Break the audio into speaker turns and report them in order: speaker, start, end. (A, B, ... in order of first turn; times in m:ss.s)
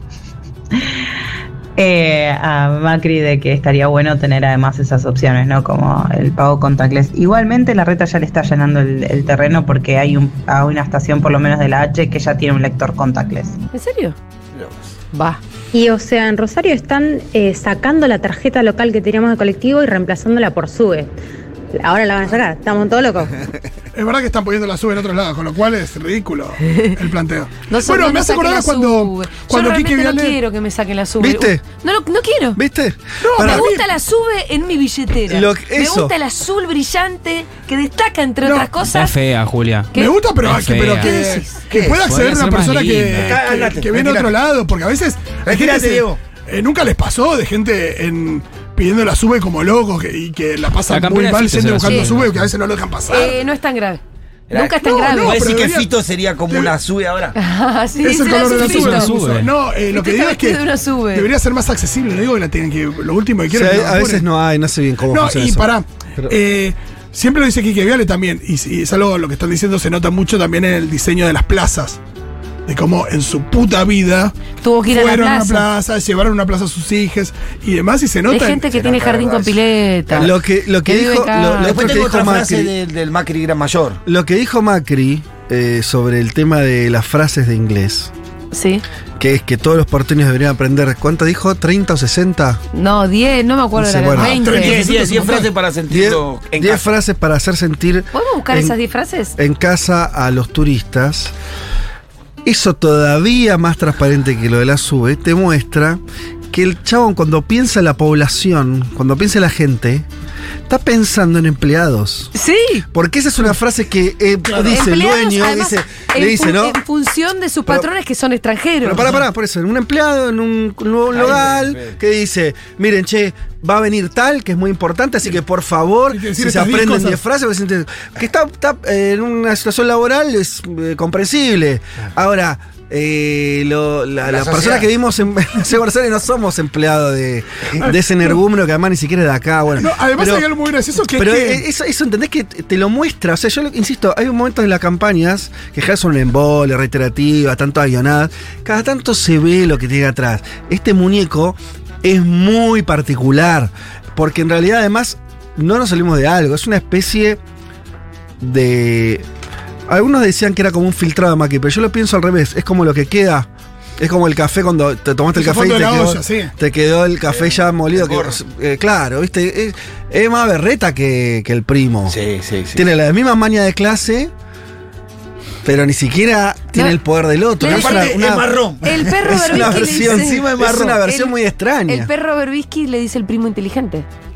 0:01.8-0:13.6 A
0:13.7-0:14.2 B
0:15.1-0:15.4 B
0:15.7-0:21.1 C
0:21.8-0:23.3 C
0:23.9-0:30.4 D
0:26.7-0:27.0 B
0:27.7-0:32.6 B
0:31.2-0:31.6 E
0:32.6-0:33.6 E
0:33.2-0:33.9 D
0:33.4-0:39.2 B
0:35.3-0:36.2 E
0:38.4-0:38.8 D
0:38.8-0:41.1 F
0:39.9-0:53.4 D
0:41.0-0:41.5 B
0:41.6-0:42.1 G
0:41.9-0:43.4 F
0:43.2-0:44.3 G
0:45.4-0:46.2 G
0:50.9-0:52.5 F
0:51.8-0:52.1 B
0:53.1-0:55.5 B
0:54.5-0:57.4 G
0:54.8-0:55.9 D
0:57.4-0:59.1 B
0:58.0-1:04.2 D
0:58.5-0:59.5 F
0:59.9-1:01.3 B
1:03.5-1:06.3 E
1:05.1-1:12.0 D
1:12.7-1:14.4 D
1:14.6-1:15.7 B
1:14.9-1:18.7 D
1:18.3-1:20.3 B
1:18.7-1:19.6 G
1:20.2-1:22.7 E
1:20.8-1:22.0 B
1:21.6-1:24.0 G
1:24.1-1:28.1 E
1:28.5-1:28.8 B
1:29.2-1:32.6 E
1:32.7-1:34.8 B
1:33.8-1:34.4 E
1:34.2-1:35.5 D
1:34.5-1:36.9 G
1:35.9-1:38.8 E
1:38.1-1:39.4 B
1:39.4-1:41.3 E
1:42.4-1:46.0 E
1:46.5-1:50.1 E
1:50.7-1:52.3 E
1:52.3-1:52.8 B
1:52.9-1:56.8 E
1:54.5-1:54.8 D
1:54.7-1:59.1 B
1:58.8-2:20.5 E
2:01.1-2:02.0 G
2:06.1-2:07.2 D
2:14.3-2:14.9 G
2:17.8-2:18.3 D
2:19.8-2:21.6 D
2:21.2-2:37.4 E
2:38.4-2:39.2 E
2:39.9-2:52.2 E
2:45.4-2:46.5 D
2:47.3-2:48.4 G
2:52.1-2:52.8 G
2:52.7-2:54.3 E
2:55.6-3:02.1 E
2:57.6-2:58.2 B
2:57.6-3:01.0 G
2:58.8-3:00.5 B
3:01.0-3:01.3 B
3:01.9-3:04.1 B